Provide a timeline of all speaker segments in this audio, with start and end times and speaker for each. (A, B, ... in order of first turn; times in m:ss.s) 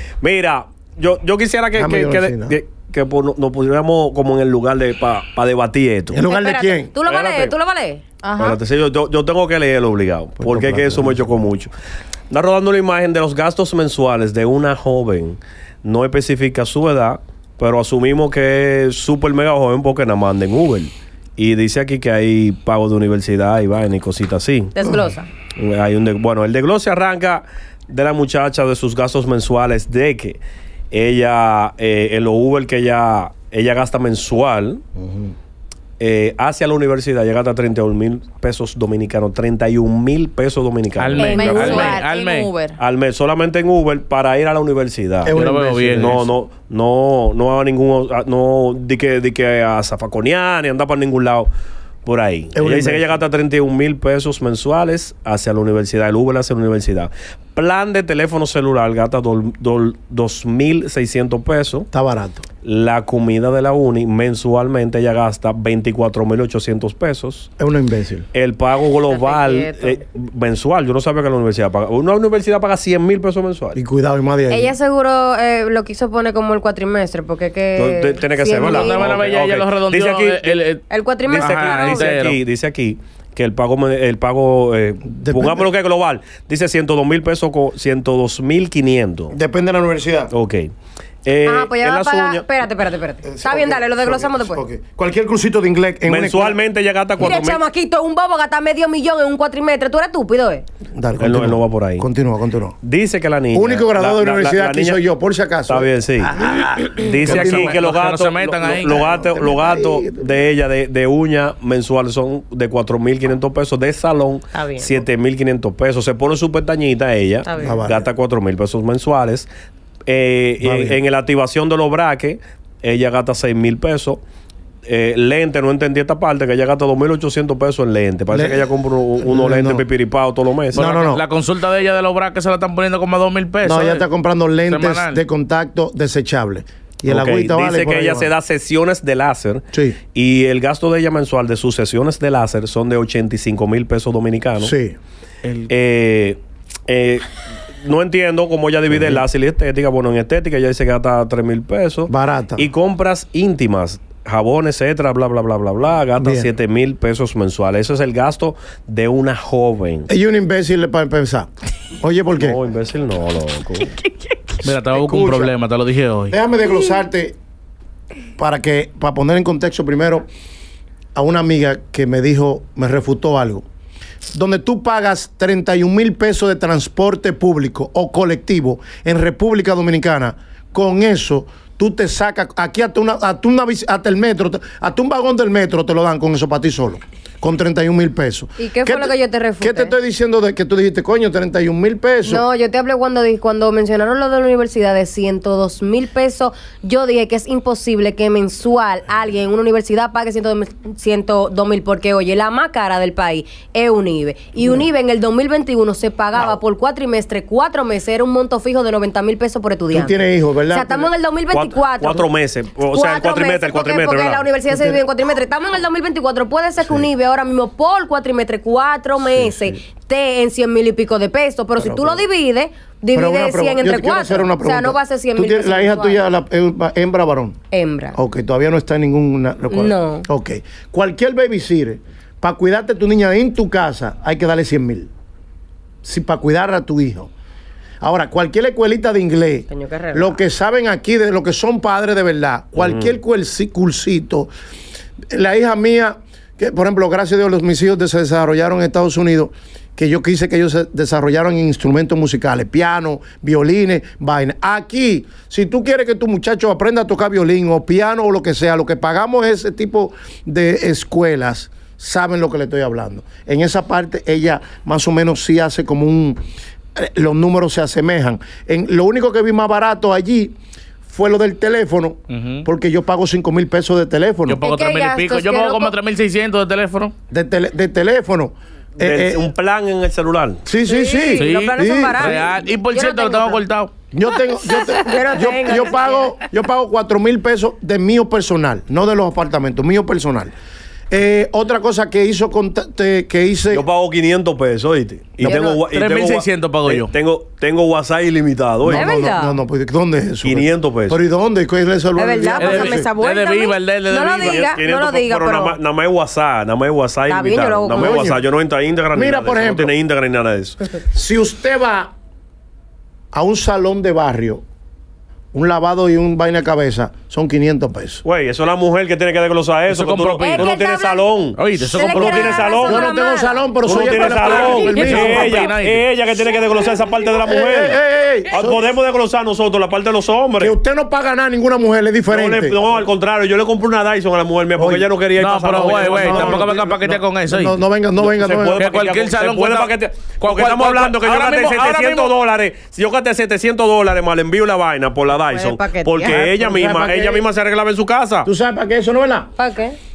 0:00.2-0:06.2 A
0:01.7-0:02.6 B
0:06.1-0:06.9 B
0:06.2-0:08.0 C
0:07.0-0:07.5 A
0:08.2-0:08.6 D
0:08.4-0:11.7 A
0:10.4-0:11.2 B
0:12.3-0:24.7 A
0:24.7-0:25.3 C
0:25.6-0:30.4 A
0:30.9-0:34.8 A
0:35.0-0:35.3 B
0:36.0-0:41.8 A
0:41.0-0:42.5 E
0:41.1-0:42.8 D
0:42.8-0:45.4 A
0:45.2-0:46.2 B
0:45.3-0:46.2 E
0:45.9-0:51.5 A
0:52.0-1:01.9 A
0:52.5-0:53.2 B
1:01.9-1:02.4 B
1:02.6-1:07.5 A
1:07.6-1:08.2 B
1:08.3-1:13.8 A
1:09.1-1:10.0 C
1:13.7-1:14.7 B
1:14.5-1:19.1 C
1:17.8-1:20.6 A
1:18.6-1:22.4 E
1:20.9-1:22.1 C
1:21.3-1:29.4 A
1:25.0-1:25.7 B
1:29.3-1:30.3 B
1:30.3-1:30.7 A
1:31.2-1:32.5 A
1:31.4-1:34.6 C
1:33.2-1:36.6 B
1:36.1-1:37.6 A
1:37.2-1:40.6 C
1:40.9-1:42.8 B
1:41.2-1:42.1 A
1:42.8-1:45.0 A
1:43.5-1:47.8 B
1:45.7-1:46.3 A
1:47.0-1:59.5 A
1:47.1-1:49.0 E
1:48.8-1:50.5 B
1:54.5-1:55.0 C
1:57.4-1:57.8 C
1:57.6-1:58.1 B
2:00.1-2:04.2 A
2:00.6-2:01.0 B
2:04.9-2:10.9 A
2:08.3-2:08.7 B
2:09.2-2:09.8 B
2:10.7-2:14.0 E
2:10.7-2:11.2 B
2:13.6-2:18.3 B
2:14.7-2:15.2 E
2:17.1-2:24.7 A
2:19.7-2:20.0 B
2:24.6-2:25.0 B
2:25.4-2:25.7 E
2:25.7-2:27.2 A
2:27.8-2:40.1 A
2:28.9-2:29.2 B
2:32.1-2:32.7 B
2:36.2-2:36.5 B
2:40.1-2:42.6 B
2:42.3-2:43.9 A
2:44.0-2:44.3 D
2:44.6-2:46.4 E
2:44.7-2:45.5 B
2:46.3-2:47.4 B
2:48.4-2:50.2 B
2:51.2-2:53.6 B
2:54.3-3:12.4 B
3:08.6-3:09.9 C
3:12.2-3:32.3 C
3:24.6-3:24.9 B
3:29.9-3:31.1 B
3:31.5-3:34.5 A
3:32.9-3:46.2 C
3:34.7-3:35.0 B
3:36.8-3:37.1 B
3:39.3-3:39.7 B
3:41.8-3:42.2 B
3:43.1-3:47.6 B
3:47.7-3:48.2 C
3:48.1-3:55.1 B
3:49.7-3:50.2 C
3:56.0-3:57.3 B
3:58.0-4:04.5 B
3:59.7-4:00.4 C
4:02.8-4:03.1 A
4:05.3-4:26.4 B
4:27.0-4:30.5 B
4:31.0-4:34.6 B
4:32.3-4:32.6 E
4:34.5-4:37.1 E
4:34.6-4:35.9 D
4:37.3-4:39.5 B
4:39.0-4:40.6 A
4:40.6-4:42.6 B
4:40.8-4:43.6 C
4:41.4-4:43.9 E
4:44.1-4:50.5 B
4:44.6-4:46.3 C
4:51.1-4:53.8 B
4:53.7-4:59.1 A
4:55.4-4:55.7 B
4:55.4-4:55.8 C
4:55.9-4:57.1 E
4:58.8-5:03.1 B
4:58.9-4:59.6 C
5:00.4-5:01.2 A
5:02.2-5:05.8 C
5:02.6-5:04.7 E
5:04.4-5:11.0 A
5:07.3-5:08.2 C
5:07.9-5:08.4 B
5:09.1-5:09.9 B
5:11.0-5:12.1 B
5:13.3-5:14.6 B
5:15.5-5:18.2 B
5:18.2-5:21.7 A
5:19.9-5:20.7 E
5:20.4-5:23.7 C
5:21.5-5:23.0 E
5:22.2-5:23.0 A
5:22.8-5:25.7 B
5:23.8-5:28.0 A
5:24.3-5:26.0 E
5:27.4-5:28.9 B
5:28.5-5:30.7 A
5:30.6-5:32.8 B
5:32.3-5:36.7 A
5:34.8-5:35.1 B
5:35.4-5:37.8 E
5:35.8-5:38.8 B
5:38.2-5:48.5 A
5:38.8-5:42.3 E
5:45.5-5:46.4 C
5:46.3-5:47.4 B
5:48.4-5:49.5 B
5:49.6-5:50.0 C